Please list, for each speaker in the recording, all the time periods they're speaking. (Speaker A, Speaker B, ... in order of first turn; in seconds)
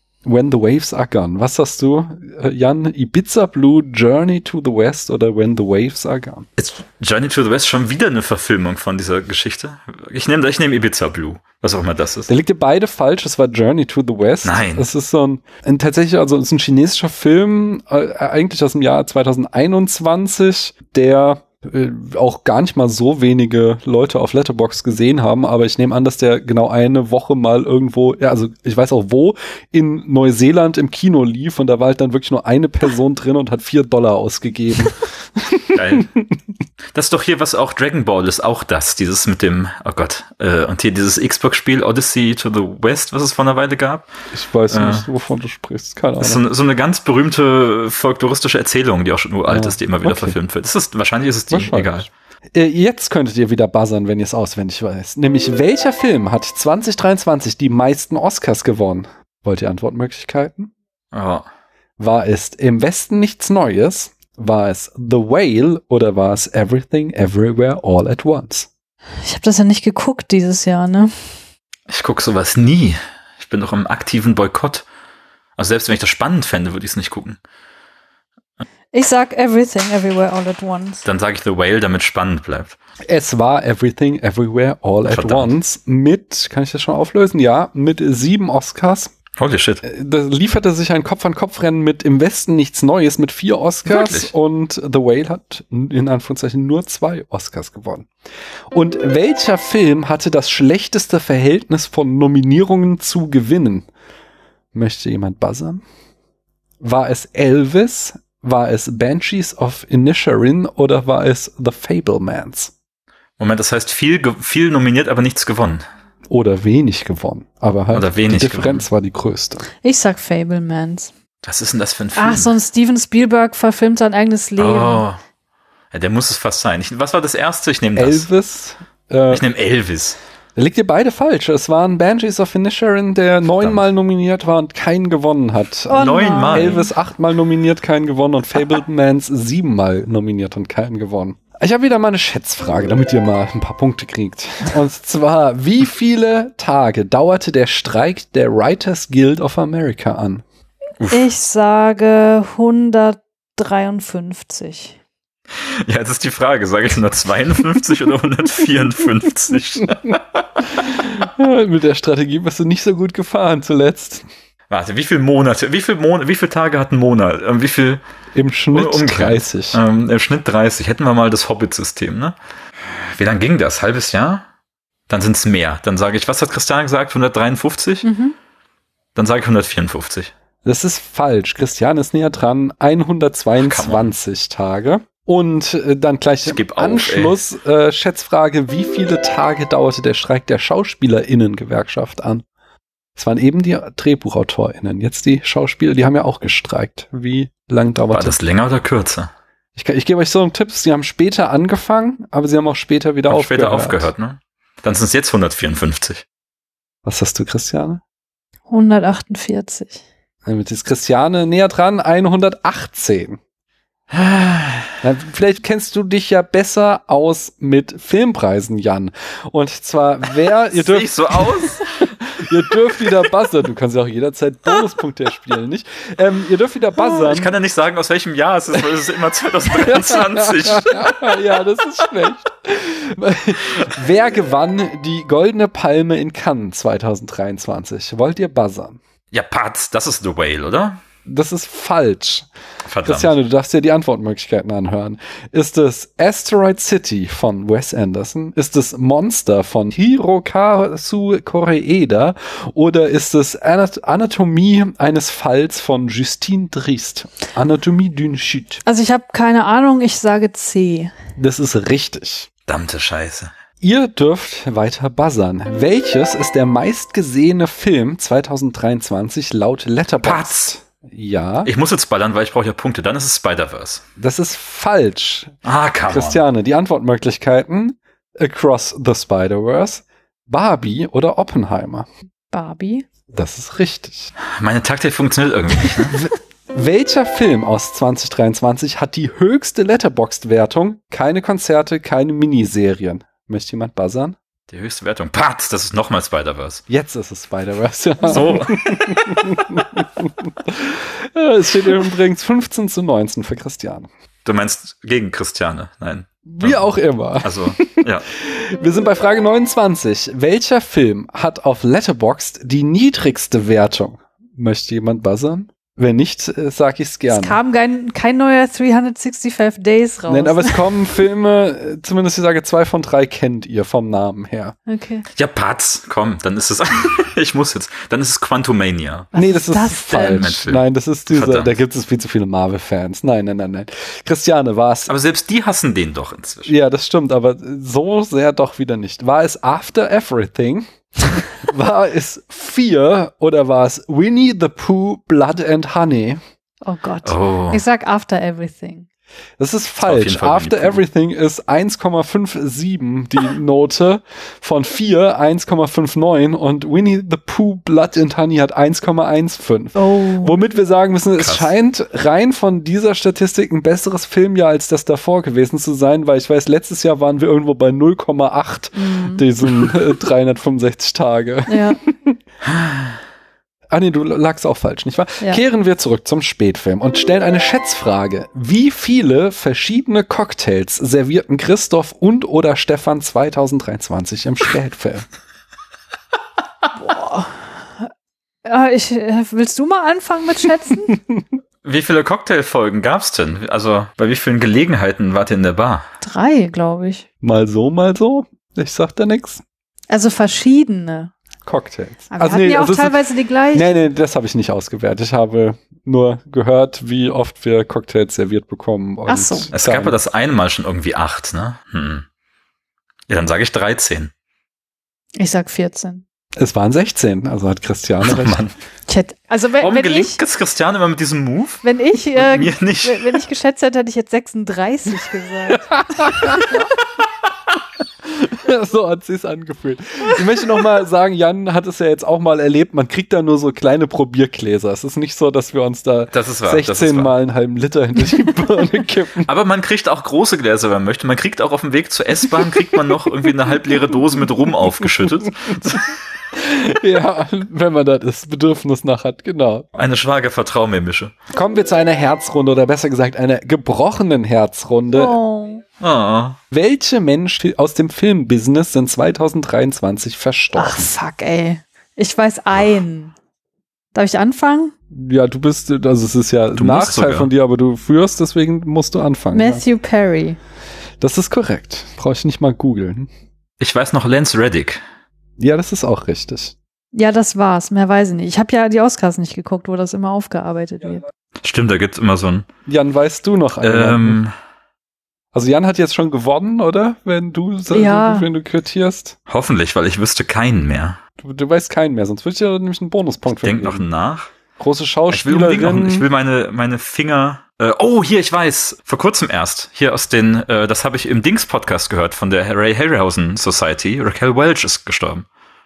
Speaker A: 0.2-6.5, 12.3-36.3, 44.3-46.4, 49.5-50.4, 51.5-60.7, 62.0-68.7, 83.1-89.1, 89.8-98.1, 98.7-103.9, 104.7-105.8, 106.8-112.7, 116.3-119.7, 128.0-129.4, 130.6-150.4, 159.8-164.2, 168.3-169.8, 180.6-192.4, 193.2-198.4, 199.8-204.1, 207.0-208.0, 210.4-213.4, 215.0-221.8, 222.3-227.5, 229.6-239.0, 241.2-242.5, 243.0-258.8, 261.4-262.5, 263.8-271.7, 274.2-275.5, 276.1-282.1, 283.3-284.3, 286.1-294.4, 296.9-304.1, 306.5-317.6, 320.3-324.8, 329.3-335.1, 336.6-346.4, 349.6-372.4, 373.9-385.2, 397.4-399.6, 401.6-403.2, 403.7-410.2, 416.6-418.6, 426.1-426.9, 428.3-439.5, 442.5-443.0, 446.5-449.9, 451.5-455.3, 456.7-461.1, 465.1-469.8, 471.2-473.3, 475.6-476.7, 482.9-484.4, 485.5-489.4, 491.4-494.0, 494.8-496.3
Speaker B: 6.6-12.3, 14.4-14.9, 35.7-36.1, 36.9-44.1, 44.7-45.0, 46.2-52.1, 61.1-61.5, 71.9-74.8, 75.6-77.4, 81.0-82.8, 85.0-85.5, 89.4-89.8, 93.8-94.3, 113.4-115.8, 117.9-118.8, 121.4-122.5, 124.6-125.2, 125.9-128.3, 129.3-130.2, 135.9-136.9, 151.0-151.2, 155.7-160.2, 164.7-168.0, 168.7-174.4, 175.1-178.1, 179.2-180.3, 183.6-184.1, 186.4-187.4, 198.1-199.3, 203.3-206.2, 214.1-214.9, 220.7-222.1, 227.0-231.4, 239.3-241.0, 242.8-243.3, 262.7-263.5, 270.2-270.7, 271.6-274.0, 275.6-276.4, 284.4-286.2, 294.7-296.8, 298.2-299.3, 304.4-308.3, 325.3-329.3, 330.1-331.7, 335.1-336.7, 347.2-347.8, 350.0-351.0, 361.4-361.7, 372.7-373.0, 391.8-396.0, 409.7-412.2, 413.3-414.3, 418.2-418.7, 419.8-421.8, 422.4-423.4, 436.3-437.3, 439.4-446.1, 449.9-451.3, 456.0-456.6, 466.7-467.5, 473.8-475.0, 481.6-482.7, 483.8-484.5, 489.5-491.2, 493.5-494.5, 495.3-505.4
Speaker C: 69.2-71.1, 78.9-81.0, 119.8-121.1, 122.1-125.0, 135.9-136.9, 151.1-155.0, 178.0-178.3, 208.7-210.0, 258.8-261.1, 282.5-283.0, 317.3-320.9, 324.9-325.2, 329.3-330.5, 346.8-349.1, 359.9-360.5, 368.9-369.4, 371.7-372.0, 386.9-388.1, 388.6-391.2, 396.2-397.2, 400.1-401.3, 402.3-403.9, 409.3-409.7, 415.4-416.2, 419.1-420.4, 421.8-426.6, 455.1-455.8, 460.7-463.3, 464.1-464.9, 469.5-470.6, 477.1-481.2, 487.9-488.5